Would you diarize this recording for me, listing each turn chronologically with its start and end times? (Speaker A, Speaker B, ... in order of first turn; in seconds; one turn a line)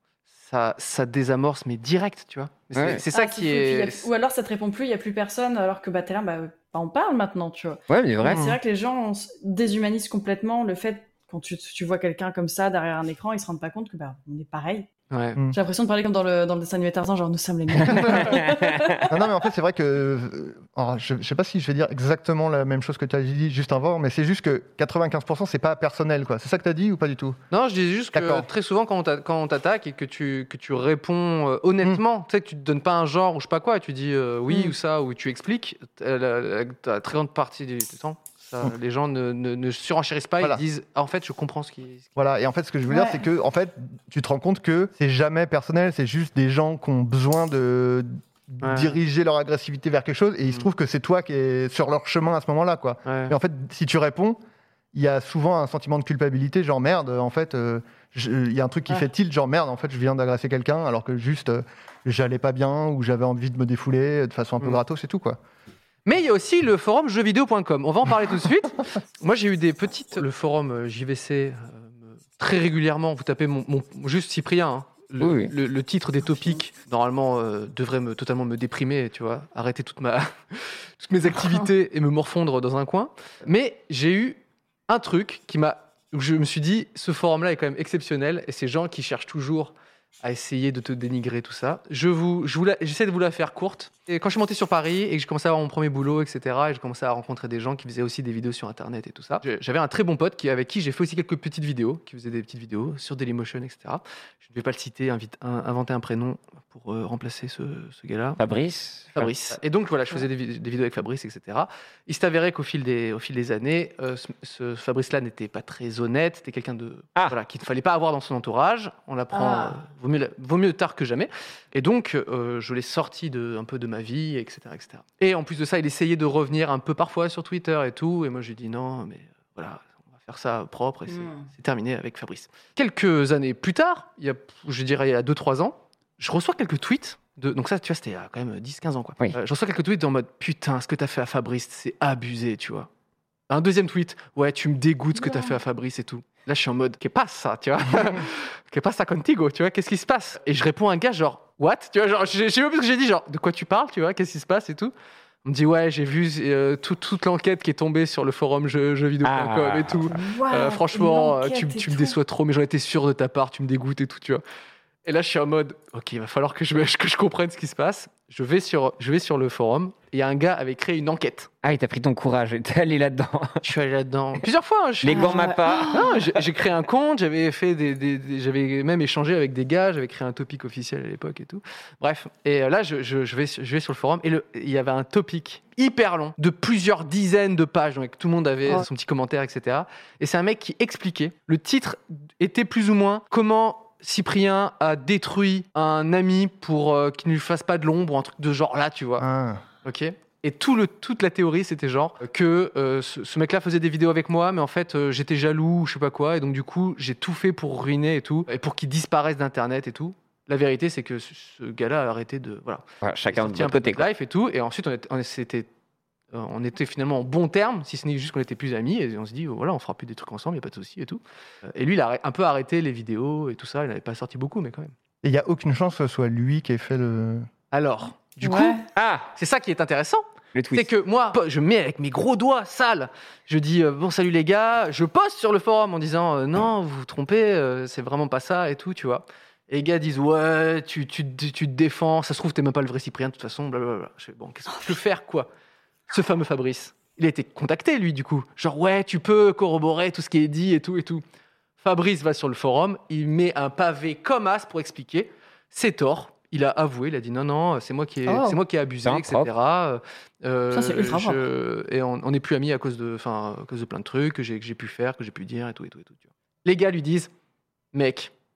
Speaker A: 0.3-4.1
Speaker B: 2.7-3.0
Speaker C: 3.1-14.9
Speaker B: 7.9-8.6
Speaker A: 15.1-15.4
Speaker C: 15.5-19.1
Speaker D: 17.9-18.3
Speaker B: 17.9-19.0
Speaker D: 19.1-27.4
Speaker A: 27.5-42.1
Speaker D: 28.1-28.5
Speaker D: 42.1-54.4
Speaker C: 42.9-43.2
Speaker A: 48.6-49.0
Speaker A: 53.0-53.3
Speaker D: 54.9-65.4
Speaker A: 66.0-108.4
Speaker B: 75.2-75.5
Speaker B: 108.4-109.3
Speaker A: 109.1-142.9
Speaker C: 119.3-119.8
Speaker C: 131.1-131.5
Speaker A: 143.5-154.9
Speaker C: 145.2-145.6
Speaker A: 155.4-164.4
Speaker B: 159.2-160.1
Speaker C: 160.1-162.2
Speaker A: 165.0-171.5
Speaker B: 171.6-173.6
Speaker A: 173.6-199.2
Speaker B: 175.0-176.2
Speaker C: 175.1-176.2
Speaker D: 199.2-199.6
Speaker A: 199.8-215.7
Speaker B: 213.0-214.1
Speaker A: 216.3-224.9
Speaker D: 225.2-227.5
Speaker A: 227.7-228.8
Speaker C: 228.4-228.8
Speaker B: 228.9-229.3
Speaker A: 229.3-245.5
Speaker B: 230.5-230.9
Speaker A: 246.1-251.2
Speaker A: 251.8-267.3
Speaker C: 258.3-258.5
Speaker B: 259.0-259.5
Speaker C: 260.7-261.4
Speaker A: 267.9-268.3